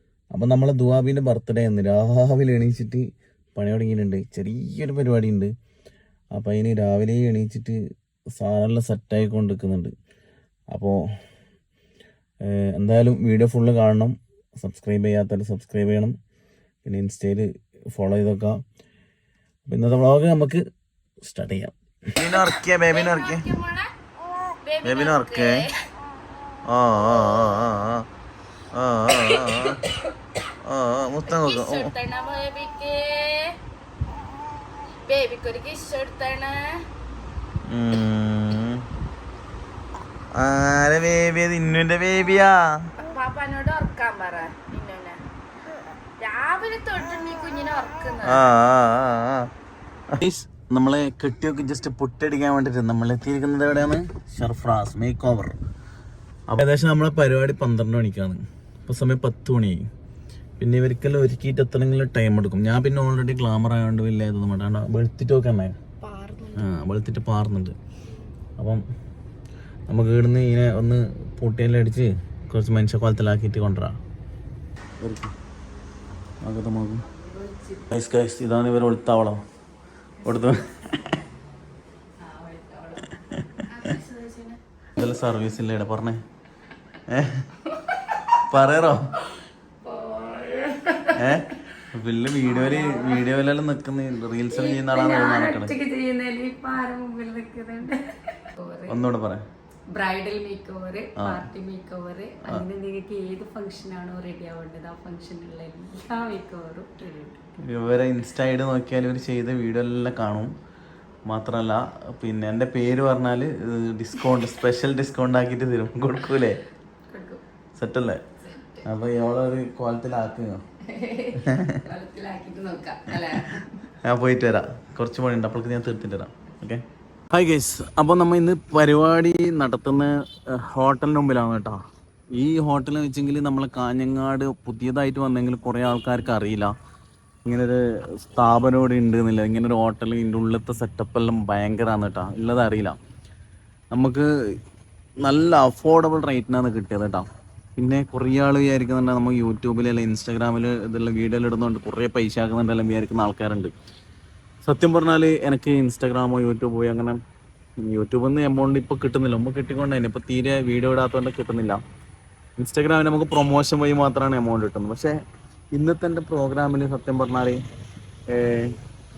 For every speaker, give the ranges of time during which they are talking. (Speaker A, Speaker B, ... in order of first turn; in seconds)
Speaker A: 0.3-5.5, 6.3-7.8, 8.4-9.9, 10.7-11.0, 12.4-16.1, 16.9-18.6, 19.7-20.6, 21.2-23.5, 24.8-25.7, 26.7-28.1, 28.7-29.8, 30.6-31.9, 37.7-38.8, 40.3-42.9, 48.2-49.5, 50.1-55.6, 56.5-59.8, 60.6-65.8, 66.5-67.8, 68.6-68.8, 69.9-74.0, 75.0-75.3, 76.4-77.1, 77.9-79.4, 80.2-81.2, 83.3-83.7, 85.0-86.2, 87.1-87.5, 88.3-89.2, 91.1-95.8, 98.9-99.4, 101.2-101.5, 107.6-110.5, 111.3-116.6, 117.8-118.2, 118.8-120.6, 121.4-121.8, 123.1-131.8, 132.3-136.7, 137.5-143.0, 143.9-144.3, 145.2-153.7, 154.6-157.2, 157.8-161.8, 162.6-165.2, 165.7-167.6, 168.3-168.8
Speaker B: 22.2-23.9, 24.6-25.7, 29.2-29.8, 31.2-33.6, 35.1-36.9, 43.0-45.2, 46.2-48.5, 83.7-84.6
Speaker C: 66.0-66.5, 77.2-77.9, 82.2-84.3, 89.8-91.2, 92.4-93.3, 94.5-99.0, 99.9-107.4, 117.1-117.4, 118.4-118.8, 120.8-123.7